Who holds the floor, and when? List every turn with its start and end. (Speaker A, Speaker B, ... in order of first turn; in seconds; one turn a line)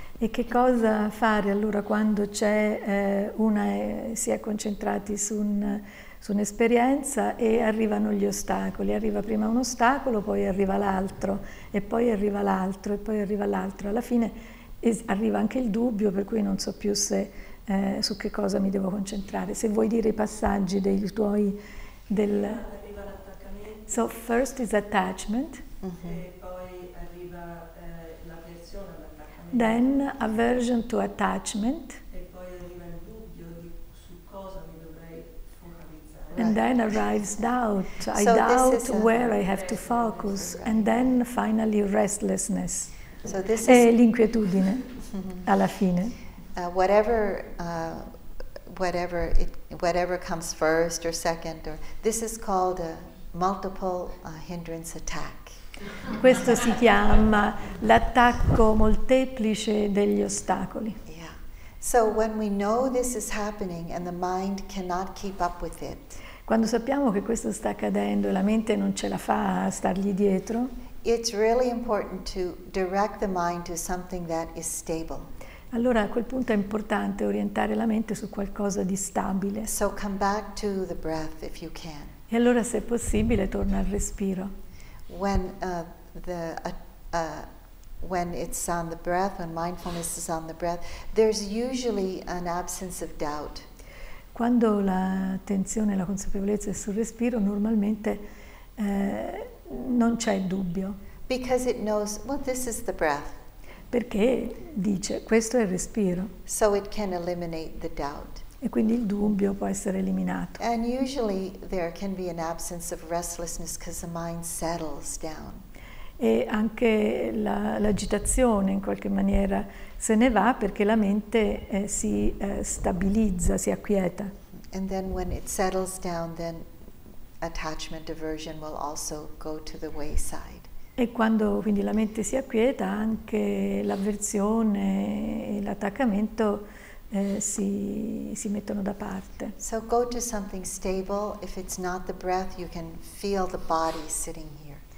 Speaker A: 0.2-22.6
Speaker B: 22.2-24.2
Speaker A: 23.9-25.6
Speaker C: 25.8-26.2
Speaker B: 26.0-30.1
Speaker A: 29.5-32.0
Speaker B: 32.1-37.0
Speaker A: 36.4-42.9
Speaker C: 38.1-39.3
Speaker B: 39.3-40.5
Speaker C: 40.2-41.1
Speaker C: 43.2-44.1
Speaker A: 43.6-46.1
Speaker C: 45.1-45.5
Speaker C: 46.5-55.7
Speaker A: 56.2-61.0
Speaker C: 56.3-56.6
Speaker C: 61.0-66.1
Speaker A: 66.5-70.7
Speaker C: 71.0-75.3
Speaker A: 75.7-79.7
Speaker C: 79.6-82.2
Speaker A: 82.3-84.5
Speaker C: 85.1-87.5
Speaker C: 88.0-93.7
Speaker A: 94.3-98.2
Speaker A: 98.8-101.0
Speaker C: 101.3-103.4
Speaker A: 103.9-106.3
Speaker C: 106.5-108.4
Speaker A: 108.6-110.6
Speaker C: 110.6-115.6
Speaker A: 116.2-124.3
Speaker C: 124.6-126.7
Speaker C: 127.4-130.7
Speaker A: 131.0-139.5
Speaker C: 139.6-144.8